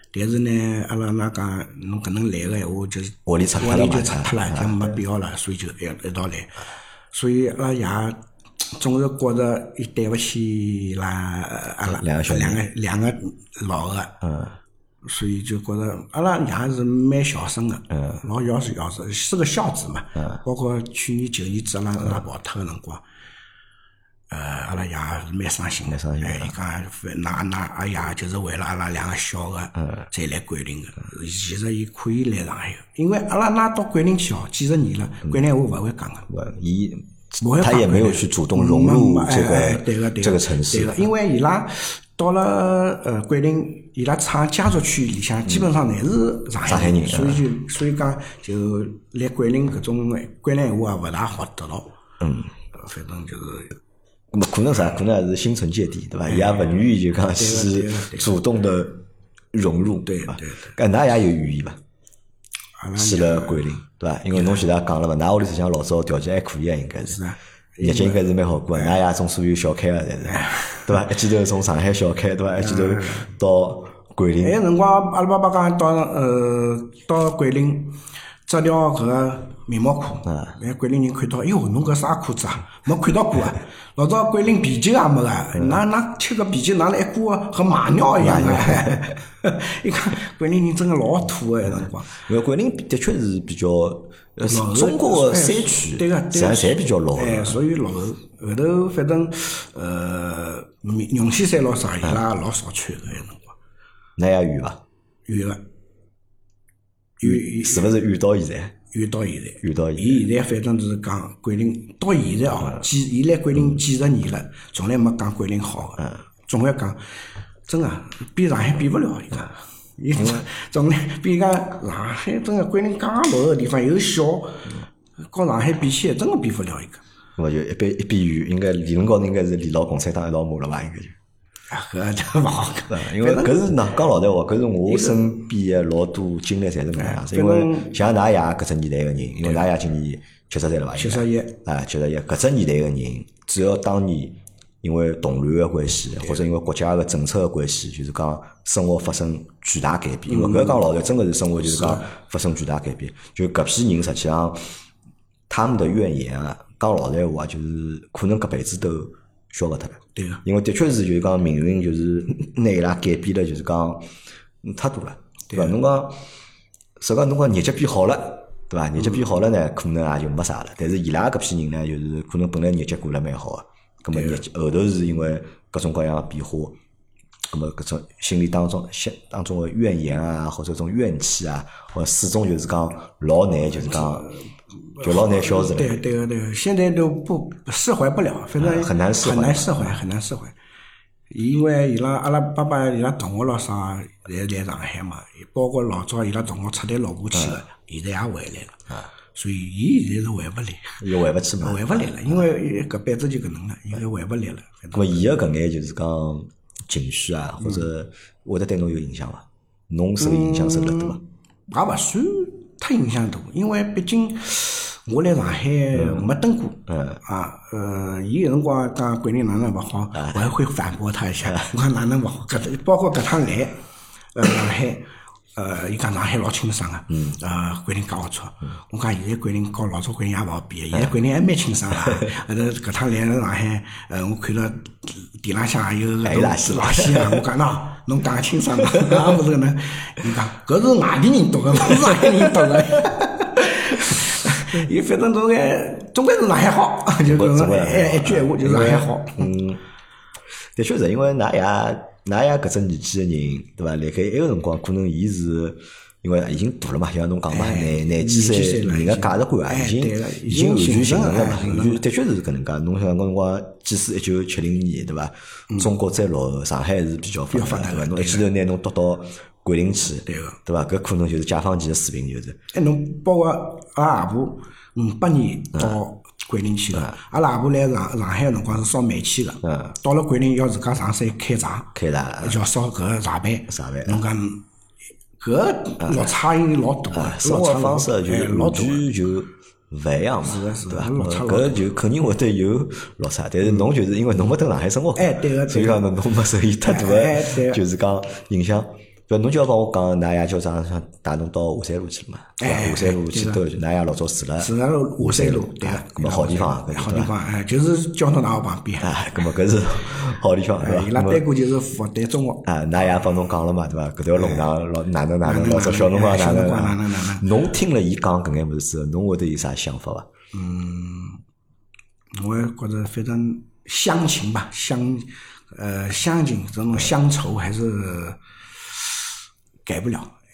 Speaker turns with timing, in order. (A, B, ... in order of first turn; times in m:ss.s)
0:00.1-0:14.2 A
0:03.3-0:05.0 B
0:11.9-0:12.6 B
0:14.2-0:14.6 B
0:15.0-0:23.0 A
0:24.3-0:36.3 A
0:25.9-0:26.5 B
0:36.3-0:41.1 B
0:37.4-0:51.9 A
0:46.6-0:47.4 B
0:52.2-0:52.5 B
0:52.7-0:53.8 A
0:54.3-1:01.8 B
0:56.3-0:56.8 A
0:57.4-0:58.3 A
1:00.1-1:00.8 A
1:02.8-1:03.6 A
1:03.0-1:07.2 B
1:04.4-1:04.6 A
1:07.1-1:09.0 A
1:07.8-1:14.6 B
1:10.2-1:11.0 A
1:12.6-1:13.3 A
1:14.4-1:32.1 A
1:20.3-1:20.6 B
1:25.6-1:25.8 B
1:28.2-1:29.0 B
1:32.3-1:37.6 B
1:34.4-1:43.6 A
1:44.2-1:44.8 B
1:45.3-1:45.6 A
1:47.2-1:48.0 A
1:47.2-1:48.8 B
1:48.9-1:57.0 A
1:49.6-1:50.2 B
1:57.7-2:04.7 A
2:05.2-2:07.0 A
2:07.4-2:11.2 B
2:11.7-2:13.7 A
2:12.9-2:34.6 B
2:14.9-2:15.3 A
2:17.0-2:17.9 A
2:21.0-2:21.6 A
2:30.3-2:30.8 A
2:31.6-2:32.1 A
2:35.5-2:44.0 B
2:40.2-2:40.4 A
2:44.6-2:46.2 B
2:45.5-2:45.8 A
2:47.0-2:56.8 B
2:54.1-2:54.4 A
2:57.5-3:04.3 B
3:03.8-3:10.5 A
3:05.0-3:06.0 B
3:08.6-3:10.0 B
3:11.3-3:18.8 A
3:19.4-3:21.0 A
3:21.0-3:22.4 B
3:21.6-3:25.2 A
3:24.9-3:31.2 B
3:30.2-3:43.8 A
3:36.0-3:36.3 B
3:36.9-3:37.2 B
3:40.2-3:40.4 B
3:44.3-4:09.5 A
3:47.1-3:47.4 B
3:56.2-3:57.5 B
4:07.2-4:09.8 B
4:10.8-4:32.6 B
4:17.5-4:22.0 A
4:27.5-4:28.5 A
4:30.3-4:30.6 A
4:32.7-4:44.6 A
4:39.6-4:40.0 B
4:42.0-4:42.6 B
4:43.7-4:44.2 B
4:45.4-4:49.0 A
4:47.1-5:07.3 B
4:50.4-4:51.8 A
4:55.2-4:56.1 A
4:56.8-4:57.8 A
5:02.6-5:03.6 A
5:04.6-5:09.1 A
5:09.0-5:11.4 B
5:10.8-5:12.7 A
5:12.6-5:20.3 B
5:14.4-5:14.7 A
5:15.4-5:17.5 A
5:20.5-5:21.4 A
5:22.3-5:29.3 A
5:29.8-5:30.4 A